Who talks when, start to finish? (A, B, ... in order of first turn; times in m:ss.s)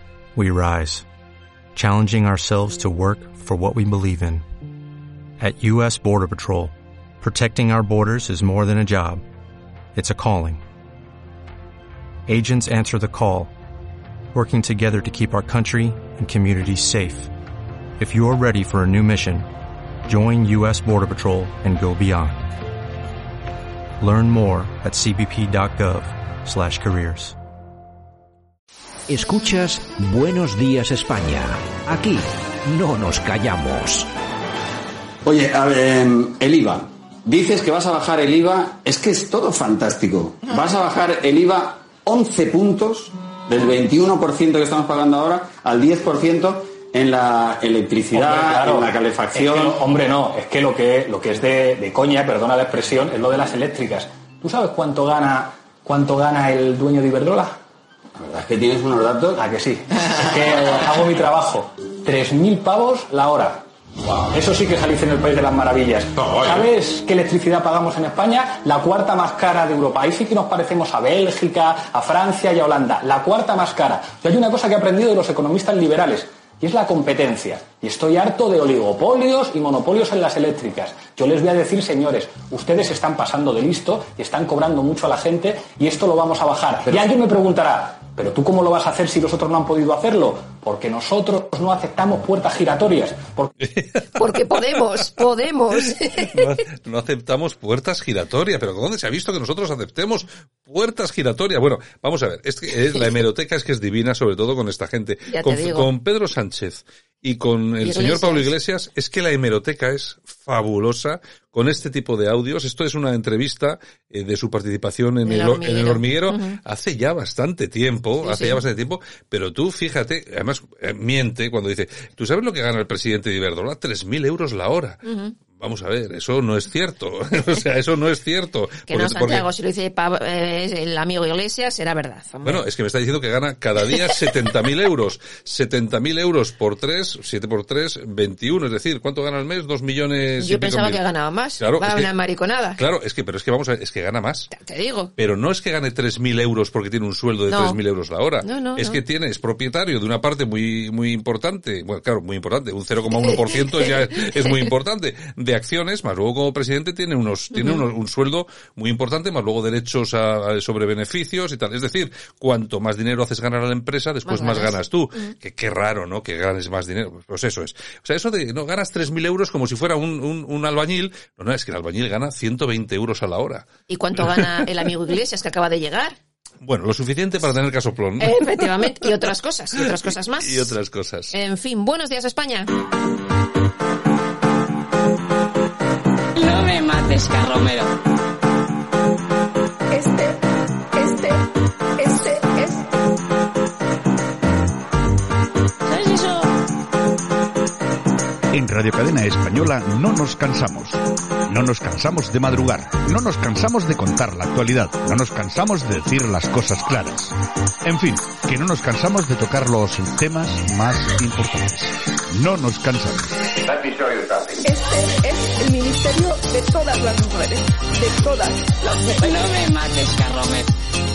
0:00.4-0:01.0 A
0:01.7-0:04.4 A
0:05.4-0:09.2 A
0:09.9-0:10.6 A
0:12.3-0:13.5 A
0:14.3-0:17.3 A
0:18.0-0:19.5 A
0:20.0-0:22.4 A
0:24.0-0:27.3 A
0:29.1-0:34.1 B
0:35.2-0:49.8 C
0:48.1-0:57.5 D
0:58.2-0:59.4 C
0:59.4-1:03.6 D
1:04.3-1:33.5 D
1:06.3-1:06.6 C
1:33.6-1:35.1 E
1:34.1-1:36.6 F
1:35.7-2:09.5 E
1:45.3-1:45.9 F
1:47.8-1:48.5 F
1:55.2-1:56.6 F
1:58.2-1:58.6 F
2:05.0-2:05.3 F
2:08.9-2:12.6 F
2:12.4-2:21.0 E
2:20.4-2:22.8 F
2:21.6-2:22.1 E
2:22.8-2:24.5 E
2:24.5-2:25.1 F
2:25.2-2:54.7 E
2:27.5-2:27.8 F
2:28.4-2:29.0 F
2:33.3-2:34.6 F
2:44.2-2:44.8 F
2:53.9-2:56.2 F
2:56.6-2:58.7 E
2:58.2-3:00.8 F
2:59.8-3:01.3 E
3:01.3-3:02.7 F
3:06.3-3:07.9 G
3:09.9-3:10.4 H
3:11.0-3:11.4 H
3:12.0-3:12.8 H
3:15.8-3:16.5 G
3:18.5-3:27.3 I
3:27.8-3:33.7 I
3:34.6-3:39.3 H
3:39.2-3:40.7 G